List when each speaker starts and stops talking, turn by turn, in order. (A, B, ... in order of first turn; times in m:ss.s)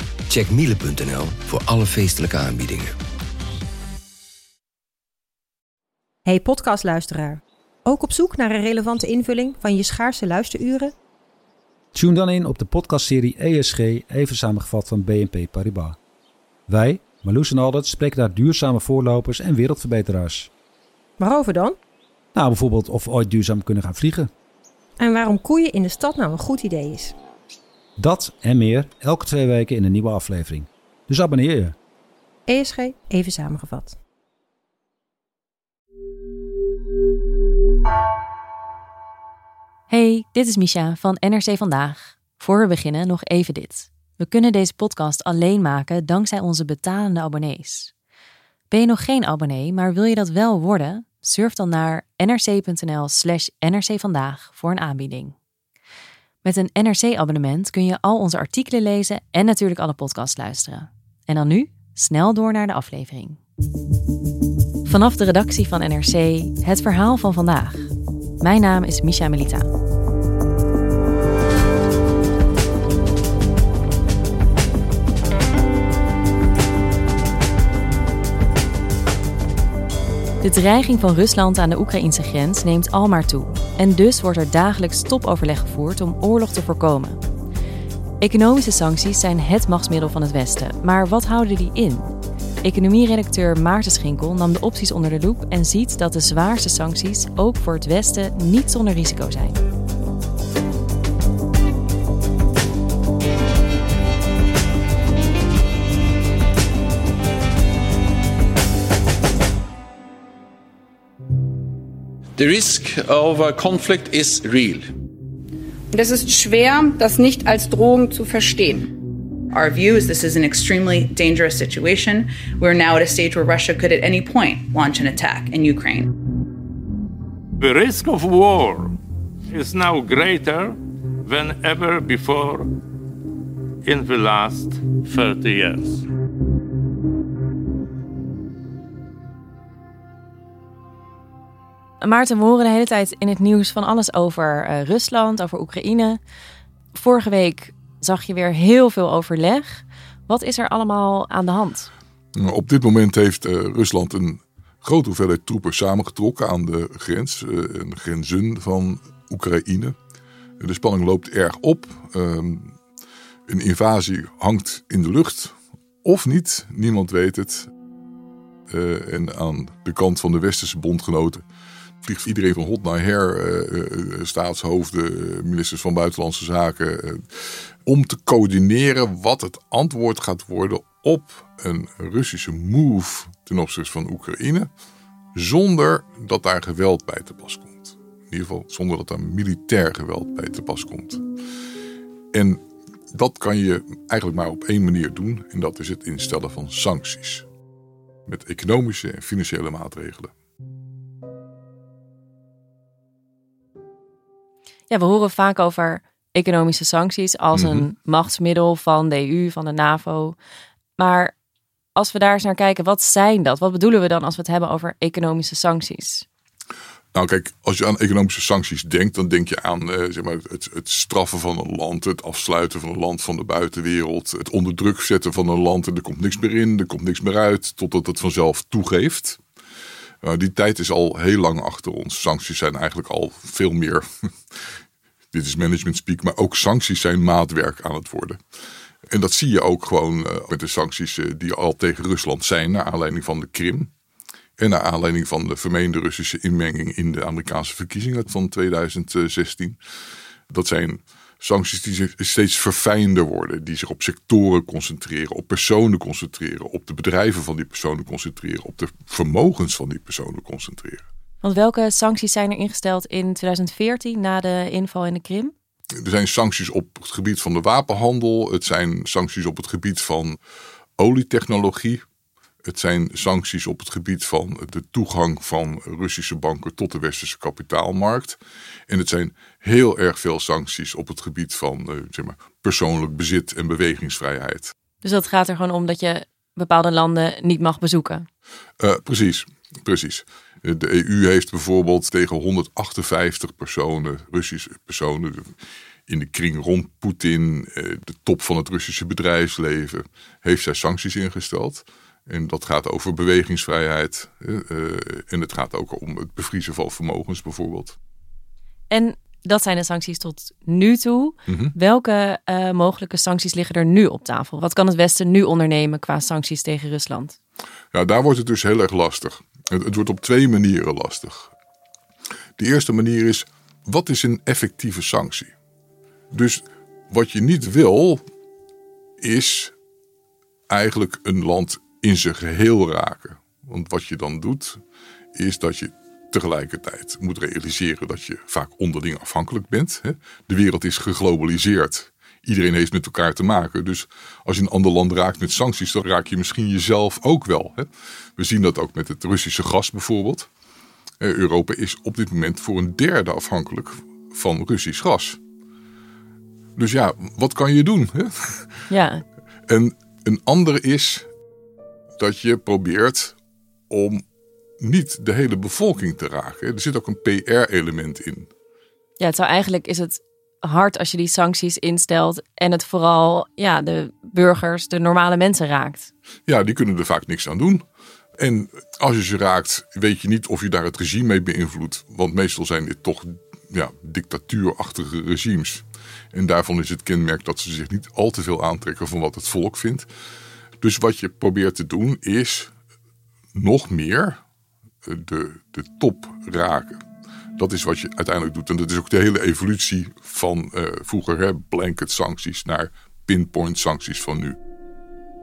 0:00.3-0:02.9 A
0:06.2-0:10.9 B
0:11.9-0:16.0 C
0:16.7-0:20.5 C
0:21.2-0:21.8 B
0:22.3-0:24.3 C
0:25.0-0:27.1 B
0:28.0-0:31.8 C
0:32.5-0:34.0 B
0:39.9-0:47.9 D
0:48.7-0:55.3 D
0:56.4-1:03.4 D
1:04.8-1:09.7 D
1:20.4-1:27.2 D
1:28.2-1:32.1 D
1:32.6-1:39.6 D
1:52.4-1:54.9 E
1:55.9-1:58.9 F
1:59.5-2:06.1 G
2:07.6-2:08.9 H
2:09.5-2:12.7 H
2:13.9-2:16.0 H
2:22.0-2:26.2 D
2:26.9-2:31.9 D
2:32.3-2:39.9 I
2:40.6-2:42.8 I
2:43.5-2:47.7 I
2:48.7-2:51.4 I
2:52.0-3:04.7 I
3:05.4-3:11.2 I
3:12.3-3:17.5 I
3:18.3-3:20.3 I
3:24.9-3:30.4 D
3:27.5-3:27.9 I
3:31.0-3:31.3 D
3:32.0-3:36.2 D
3:37.2-3:49.4 I
3:50.2-3:54.0 I
3:55.3-3:58.4 I
3:59.1-4:03.9 I
4:04.6-4:09.8 I
4:10.5-4:21.0 I
4:21.4-4:25.5 D
4:26.0-4:30.4 I
4:31.0-4:32.0 I
4:32.6-4:44.7 I
4:45.0-4:48.2 D
4:48.8-4:55.5 I
4:56.1-5:08.0 I
5:08.9-5:17.4 D
5:11.5-5:11.7 I
5:17.9-5:21.5 I
5:22.6-5:25.5 I
5:26.3-5:28.2 I
5:29.2-5:29.7 I
5:30.7-5:34.8 I
5:35.4-5:50.5 I
5:51.2-5:55.4 I
5:56.8-5:58.9 I
5:58.9-5:59.2 D
5:59.7-6:01.3 I
6:02.2-6:03.4 I
6:03.9-6:04.2 I
6:04.8-6:08.5 I
6:09.2-6:16.1 D
6:16.5-6:17.8 I
6:18.4-6:30.1 I
6:30.8-6:32.7 I
6:33.6-6:34.4 I
6:35.0-6:37.0 I
6:37.6-6:44.6 I